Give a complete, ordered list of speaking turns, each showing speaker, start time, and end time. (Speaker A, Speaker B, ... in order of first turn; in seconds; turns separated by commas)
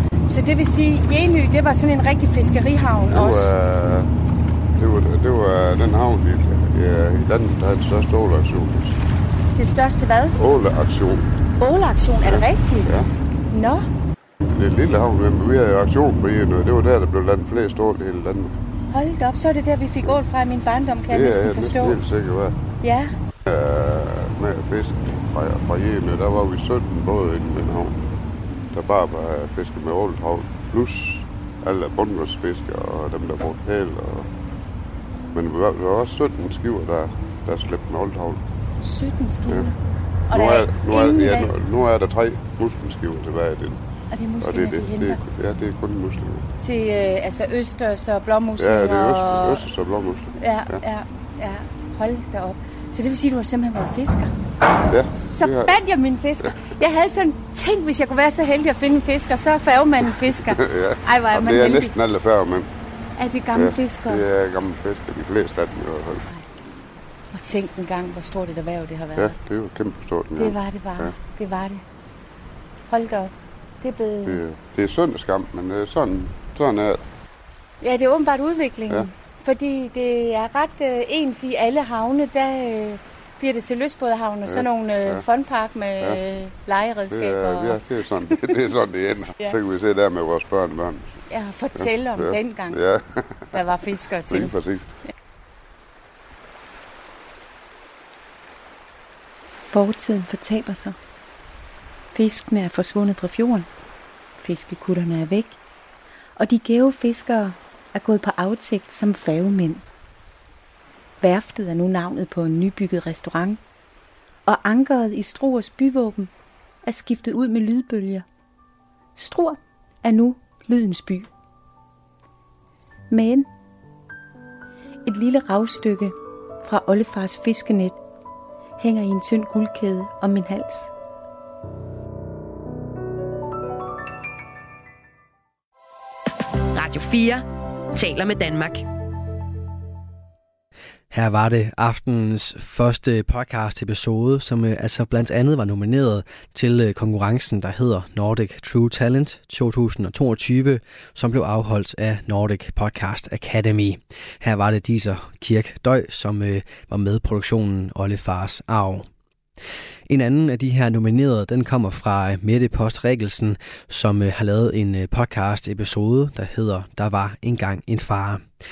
Speaker A: 0.3-3.5, Speaker B: 3.1-4.1, Speaker B: 4.8-9.0, Speaker A: 9.6-10.3, Speaker B: 10.3-11.3, Speaker A: 11.6-12.9, Speaker B: 12.2-13.1, Speaker A: 13.5-13.9, Speaker B: 14.4-18.5, Speaker A: 18.9-22.0, Speaker B: 21.1-22.6, Speaker A: 22.8-23.1, Speaker B: 23.4-28.0, Speaker B: 28.7-34.3, Speaker B: 35.3-38.4, Speaker A: 38.8-39.8, Speaker A: 40.3-41.5, Speaker B: 40.3-43.8, Speaker A: 44.1-45.2, Speaker B: 44.4-46.5, Speaker A: 46.6-49.6, Speaker B: 48.6-50.8, Speaker A: 50.4-54.4, Speaker B: 54.9-55.7, Speaker A: 55.3-61.9, Speaker B: 60.5-62.7, Speaker A: 63.2-64.2, Speaker B: 63.5-66.2, Speaker A: 67.3-69.3, Speaker B: 69.2-71.2, Speaker A: 70.3-71.8, Speaker A: 72.9-74.4, Speaker B: 74.2-77.0, Speaker A: 77.8-87.8, Speaker B: 84.5-85.2, Speaker B: 87.1-91.2, Speaker A: 91.3-92.8, Speaker B: 91.8-93.5, Speaker A: 93.5-94.5, Speaker B: 94.3-94.9, Speaker A: 99.7-101.0, Speaker A: 102.1-103.7, Speaker A: 104.4-105.6, Speaker A: 106.4-109.8, Speaker A: 111.2-113.6, Speaker A: 114.5-116.3, Speaker A: 116.8-118.2, Speaker A: 119.2-121.3, Speaker A: 123.1-123.5, Speaker A: 125.0-128.0, Speaker A: 128.8-130.9, Speaker C: 136.7-138.8, Speaker D: 141.1-159.1, Speaker D: 160.1-168.4